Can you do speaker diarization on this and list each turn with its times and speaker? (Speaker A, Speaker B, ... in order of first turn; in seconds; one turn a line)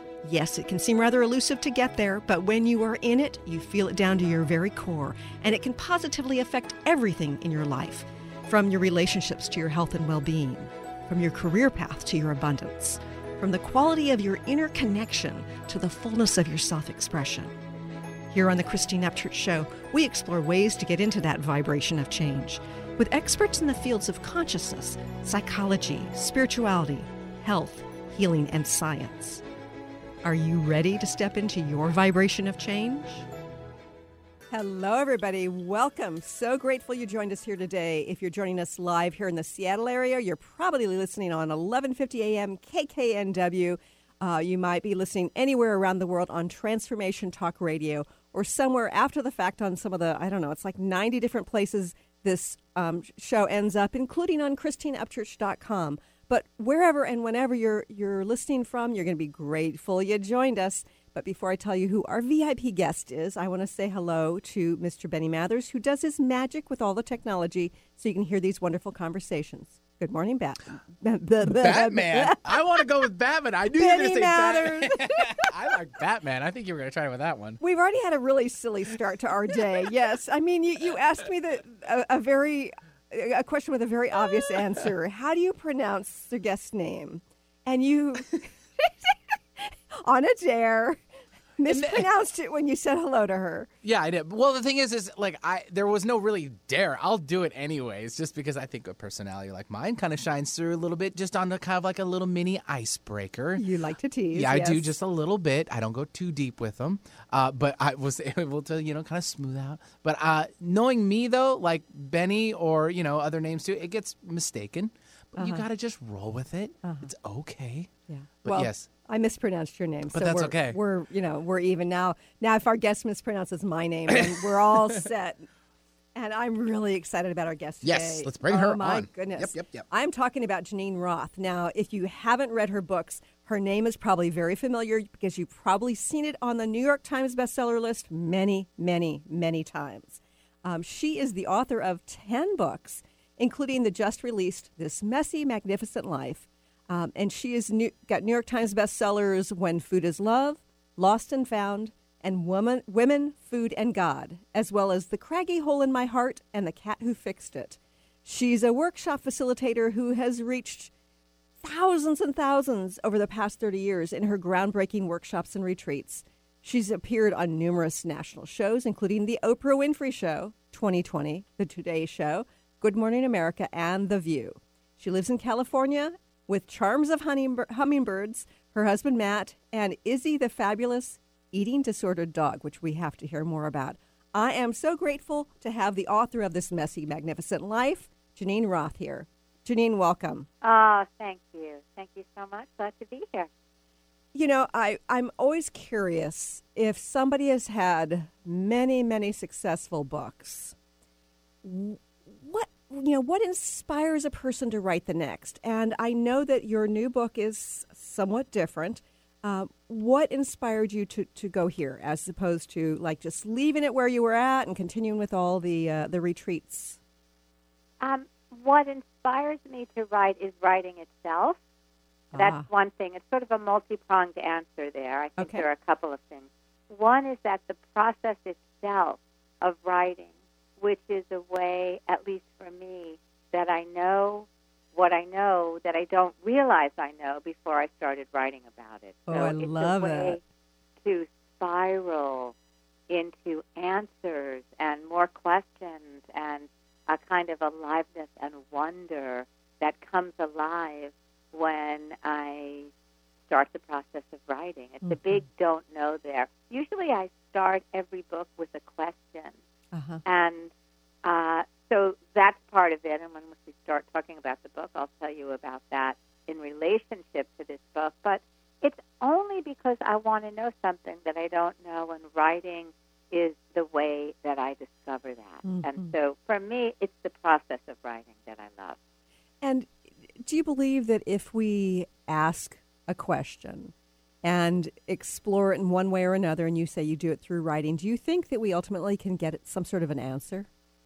Speaker A: 0.2-17.5
Speaker A: 18.3-29.4
Speaker A: 30.2-33.3
Speaker A: 34.5-72.8
Speaker B: 71.4-77.6
Speaker A: 73.7-75.3
Speaker A: 77.6-91.0
Speaker A: 91.6-93.7
Speaker B: 91.7-92.1
Speaker B: 93.8-103.7
Speaker A: 103.6-104.9
Speaker B: 104.3-117.9
Speaker A: 115.4-115.7
Speaker A: 116.8-117.1
Speaker A: 118.1-125.5
Speaker B: 118.4-118.9
Speaker B: 120.1-120.8
Speaker A: 126.2-160.9
Speaker B: 127.8-129.8
Speaker A: 161.6-190.5
Speaker C: 190.6-193.5
Speaker A: 194.3-200.8
Speaker A: 201.6-217.0
Speaker C: 218.0-221.6
Speaker A: 222.3-222.7
Speaker C: 222.3-240.4
Speaker A: 225.4-225.7
Speaker A: 239.3-240.4
Speaker C: 241.0-242.5
Speaker C: 243.1-252.9
Speaker C: 253.5-259.6
Speaker A: 255.0-255.4
Speaker A: 259.9-260.2
Speaker C: 260.2-260.7
Speaker C: 261.2-279.0
Speaker A: 275.6-276.1
Speaker A: 279.6-290.7